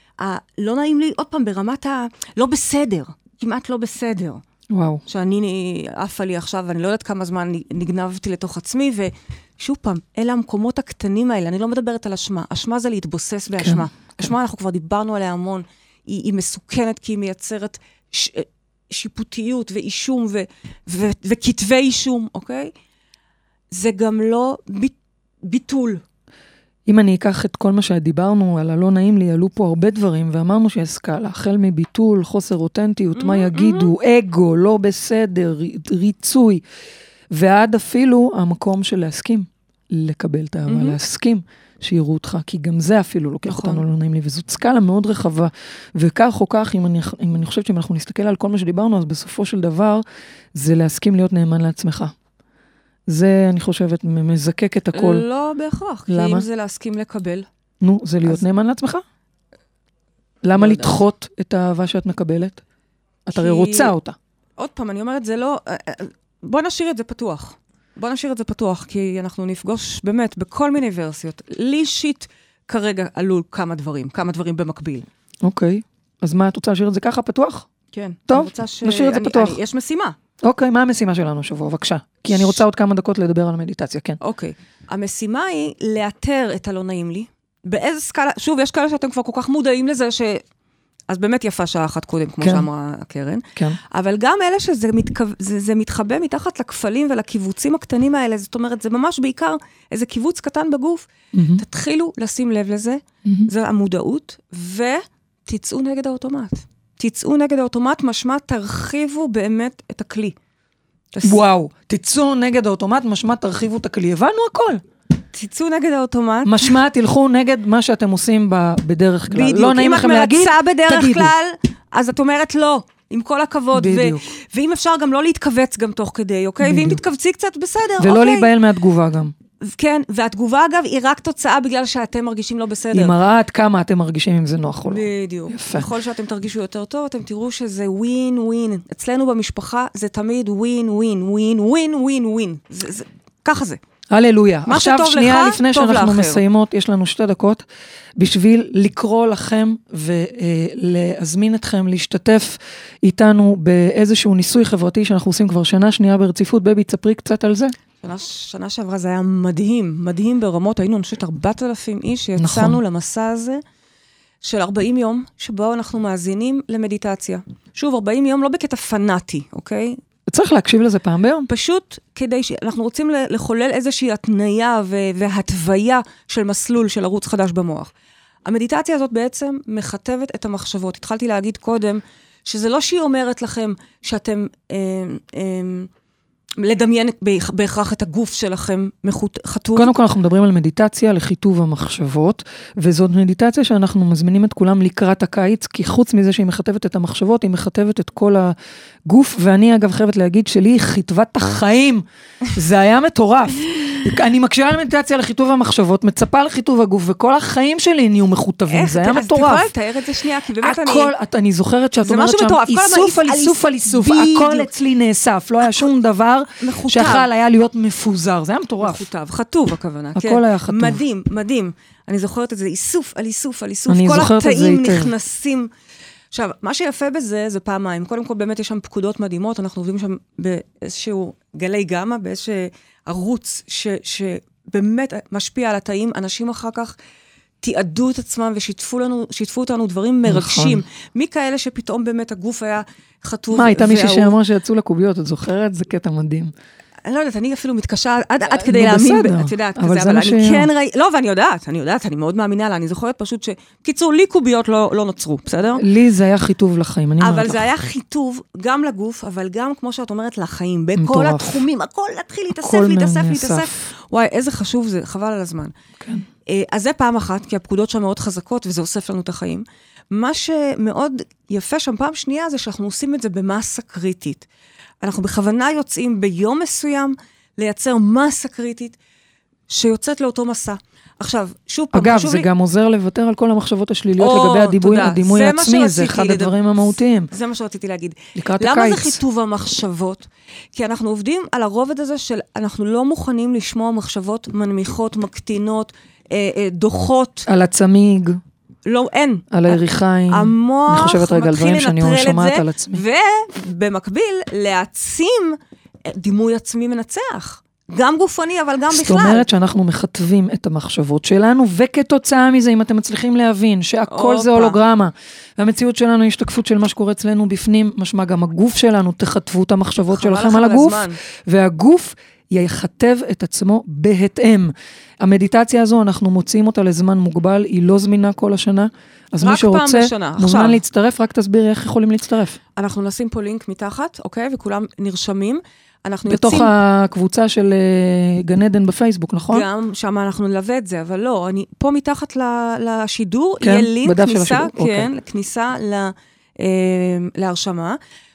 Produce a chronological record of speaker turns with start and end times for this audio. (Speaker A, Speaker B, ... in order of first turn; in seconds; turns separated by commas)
Speaker A: 0.2-4.4, Speaker B: 4.7-5.0, Speaker A: 5.1-22.7, Speaker B: 13.6-14.3, Speaker A: 23.7-26.0, Speaker B: 26.9-36.6, Speaker A: 33.1-33.9, Speaker B: 37.3-52.1, Speaker A: 40.7-41.0, Speaker A: 43.5-43.8, Speaker B: 53.1-55.2, Speaker A: 54.9-57.5, Speaker B: 56.1-56.5, Speaker B: 57.8-59.0, Speaker B: 60.4-62.6, Speaker A: 60.6-61.0, Speaker B: 63.3-64.2, Speaker A: 63.4-64.0, Speaker A: 64.6-75.0, Speaker B: 75.4-77.7, Speaker A: 77.9-80.2, Speaker B: 78.3-79.6, Speaker B: 80.4-84.2, Speaker A: 82.3-82.6, Speaker A: 84.2-90.4, Speaker A: 91.1-110.4, Speaker B: 92.4-92.7, Speaker B: 101.3-101.6, Speaker B: 103.2-103.5, Speaker A: 111.1-111.4, Speaker B: 111.2-114.8, Speaker A: 115.3-116.7, Speaker B: 116.4-121.3, Speaker A: 119.3-128.5, Speaker B: 123.7-124.3, Speaker B: 126.6-127.0, Speaker B: 128.0-129.3, Speaker A: 129.6-133.2, Speaker B: 132.9-135.9, Speaker A: 134.9-143.8, Speaker B: 144.1-147.7, Speaker A: 144.7-146.4, Speaker B: 148.2-157.7, Speaker A: 158.0-163.6, Speaker B: 162.4-162.8, Speaker A: 164.4-170.0, Speaker B: 170.3-171.5, Speaker A: 171.5-177.9, Speaker A: 178.5-185.9, Speaker A: 186.6-190.0, Speaker B: 189.8-198.6, Speaker B: 199.1-209.7, Speaker A: 208.7-211.1, Speaker B: 210.6-219.1, Speaker A: 212.0-214.7, Speaker A: 216.6-217.3, Speaker A: 218.8-225.7, Speaker B: 220.2-221.0, Speaker B: 223.9-225.1, Speaker A: 226.3-237.0, Speaker A: 237.6-244.4, Speaker B: 240.3-240.8, Speaker B: 243.5-246.5, Speaker A: 247.1-255.8, Speaker B: 248.5-250.7, Speaker B: 255.8-257.7, Speaker A: 257.2-265.7, Speaker B: 261.0-261.6, Speaker B: 262.6-263.9, Speaker B: 266.0-266.3, Speaker A: 266.5-274.5, Speaker A: 275.0-279.0, Speaker A: 279.7-282.5, Speaker B: 281.9-287.3, Speaker A: 284.2-286.6, Speaker A: 287.3-297.5, Speaker B: 288.4-289.2, Speaker B: 297.5-298.4, Speaker A: 298.9-309.5, Speaker B: 299.5-303.0, Speaker B: 308.9-332.6, Speaker A: 314.1-314.8, Speaker A: 320.1-321.2, Speaker A: 329.4-330.8, Speaker A: 332.8-336.7, Speaker B: 336.3-339.7, Speaker A: 339.5-348.0, Speaker B: 343.6-345.2